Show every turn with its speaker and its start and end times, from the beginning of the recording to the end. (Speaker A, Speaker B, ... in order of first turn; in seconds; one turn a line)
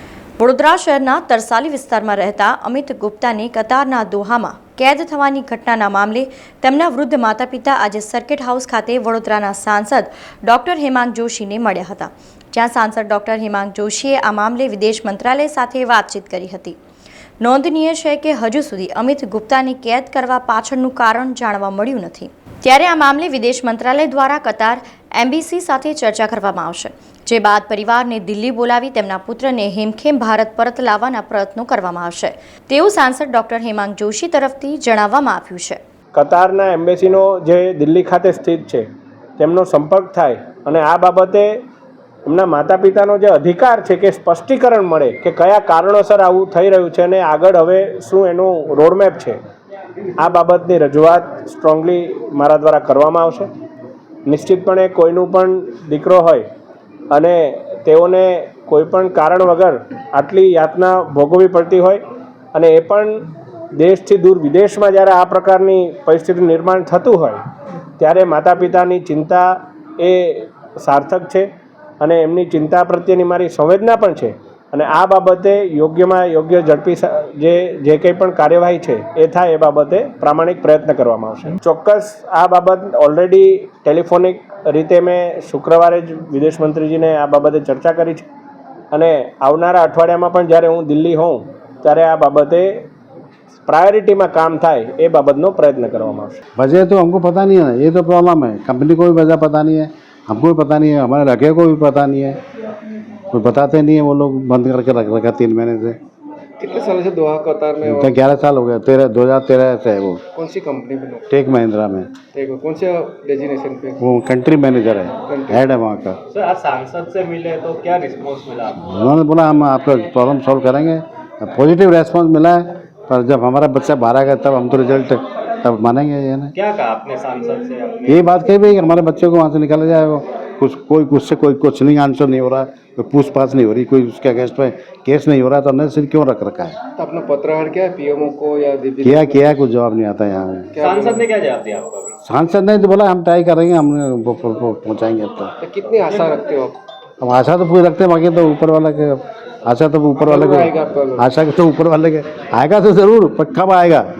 Speaker A: 0.4-16.8
Speaker A: 17.4-35.8
Speaker B: 36.1-38.8
Speaker B: 39.4-41.5
Speaker B: 42.2-49.4
Speaker B: 50.2-53.5
Speaker B: 54.3-56.5
Speaker B: 57.1-62.0
Speaker B: 62.5-63.2
Speaker B: 63.8-67.4
Speaker B: 68.0-71.5
Speaker B: 72.0-88.2
Speaker B: 88.9-92.9
Speaker B: 93.7-96.4
Speaker C: 96.6-102.4
Speaker C: 103.3-106.0
Speaker D: 106.6-108.2
Speaker C: 107.8-110.2
Speaker D: 110.3-111.2
Speaker C: 111.3-112.1
Speaker D: 112.3-114.0
Speaker C: 114.0-116.2
Speaker D: 115.3-115.6
Speaker E: 116.3-118.9
Speaker C: 118.8-126.5
Speaker E: 126.5-128.3
Speaker C: 128.1-136.8
Speaker D: 136.9-139.5
Speaker C: 139.0-140.7
Speaker D: 140.7-141.3
Speaker E: 140.8-142.1
Speaker C: 142.2-145.5
Speaker D: 145.6-146.8
Speaker C: 147.2-154.0
Speaker D: 150.2-151.3